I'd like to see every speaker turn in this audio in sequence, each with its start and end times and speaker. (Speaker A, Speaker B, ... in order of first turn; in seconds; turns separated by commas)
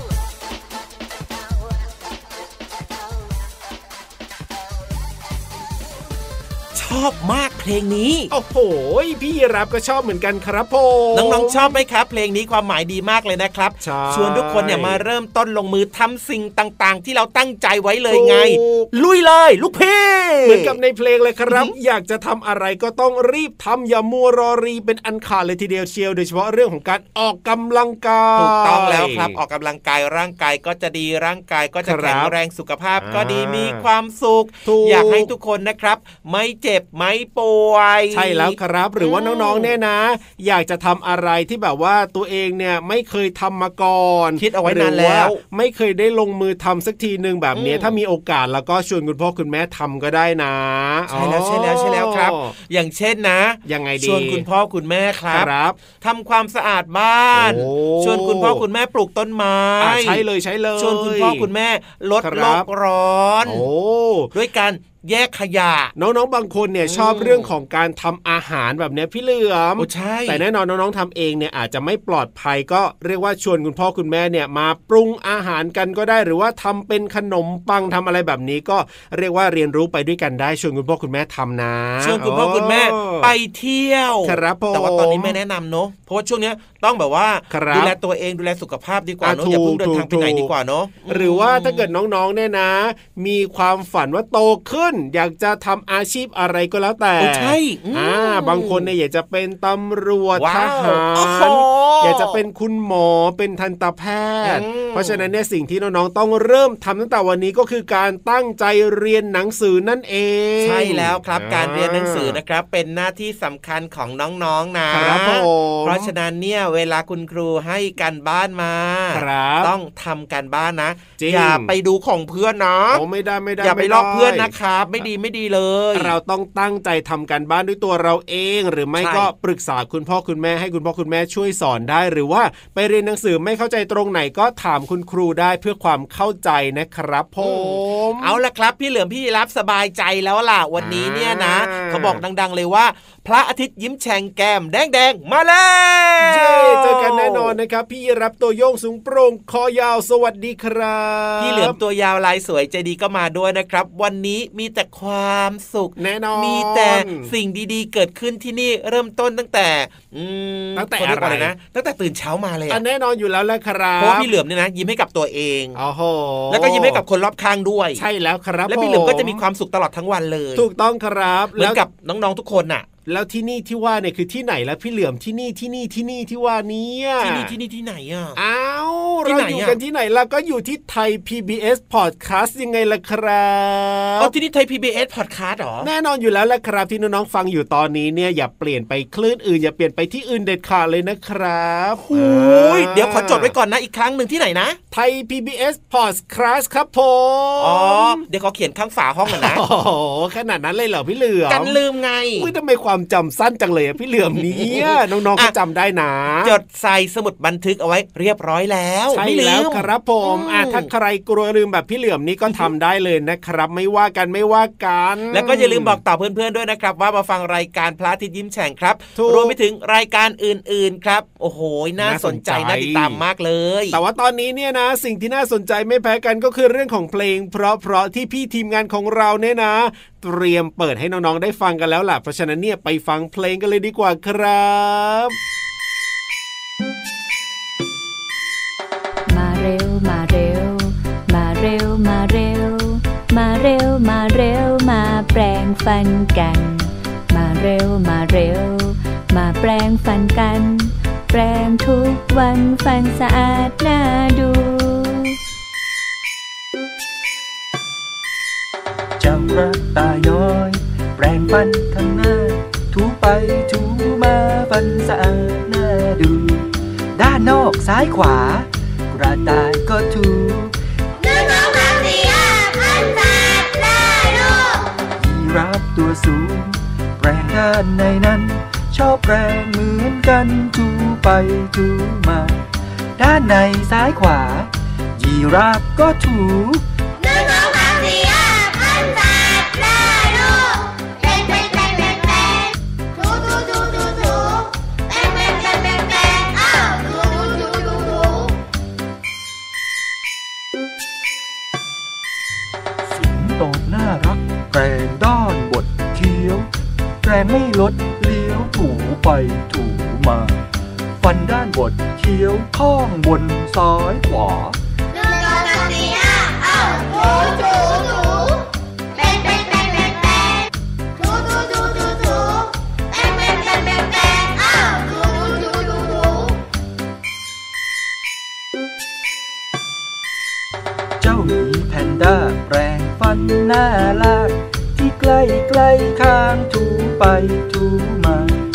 Speaker A: 6.7-8.3, Speaker B: 8.3-11.8, Speaker A: 11.1-20.8, Speaker B: 13.8-15.0, Speaker B: 18.1-18.9, Speaker B: 20.4-29.4, Speaker A: 21.5-21.7, Speaker A: 28.4-39.7, Speaker B: 31.8-32.3, Speaker B: 33.0-33.8, Speaker B: 34.6-35.3, Speaker B: 38.1-52.5, Speaker A: 44.4-45.4, Speaker A: 47.5-47.9, Speaker A: 51.1-60.2, Speaker B: 53.6-54.5, Speaker B: 55.3-55.8, Speaker B: 57.3-58.6, Speaker B: 59.8-61.5, Speaker A: 60.8-63.6, Speaker B: 62.2-62.7, Speaker B: 63.4-64.3, Speaker A: 64.3-65.9, Speaker B: 66.0-83.3, Speaker A: 66.9-67.5, Speaker A: 69.8-70.4, Speaker A: 82.0-91.9, Speaker B: 84.2-85.4, Speaker B: 87.5-87.9, Speaker B: 89.2-90.5, Speaker B: 91.1-112.4, Speaker A: 97.2-98.9, Speaker A: 100.3-102.4, Speaker A: 104.4-105.2, Speaker A: 110.6-123.0, Speaker B: 114.9-116.1, Speaker B: 119.1-119.7, Speaker B: 121.2-121.7, Speaker B: 122.9-125.0, Speaker A: 123.6-126.2, Speaker B: 125.9-138.4, Speaker A: 129.0-129.3, Speaker A: 137.4-147.5, Speaker B: 140.8-142.2, Speaker B: 146.2-151.8, Speaker A: 151.4-162.8, Speaker B: 156.0-157.3, Speaker B: 160.7-161.5, Speaker B: 162.7-164.3, Speaker A: 164.0-165.8, Speaker B: 165.7-167.0, Speaker A: 166.5-168.0, Speaker B: 167.9-169.4, Speaker A: 168.7-170.7, Speaker B: 170.6-171.8, Speaker A: 171.6-172.9, Speaker B: 173.1-177.5, Speaker A: 177.2-178.4, Speaker B: 178.3-184.3, Speaker A: 179.2-179.8, Speaker A: 184.2-185.9, Speaker B: 185.8-193.5, Speaker A: 192.1-194.8, Speaker B: 194.9-198.2, Speaker A: 197.6-199.6, Speaker B: 199.3-201.8, Speaker A: 201.5-202.5, Speaker B: 202.3-206.5, Speaker A: 204.6-205.5, Speaker A: 206.4-210.9, Speaker B: 209.1-216.0, Speaker A: 215.3-224.0, Speaker B: 219.2-219.6, Speaker B: 222.0-223.2, Speaker B: 223.9-235.3, Speaker C: 239.3-255.3, Speaker D: 259.2-270.7, Speaker E: 271.2-274.8, Speaker D: 275.1-282.6, Speaker D: 283.2-286.8, Speaker E: 287.2-292.6, Speaker E: 293.2-294.6, Speaker E: 295.2-298.3, Speaker D: 303.0-306.7, Speaker D: 307.2-310.6, Speaker D: 311.2-314.8, Speaker E: 315.2-318.4, Speaker E: 319.3-320.2, Speaker E: 321.2-322.6, Speaker E: 323.2-326.2, Speaker D: 331.2-338.6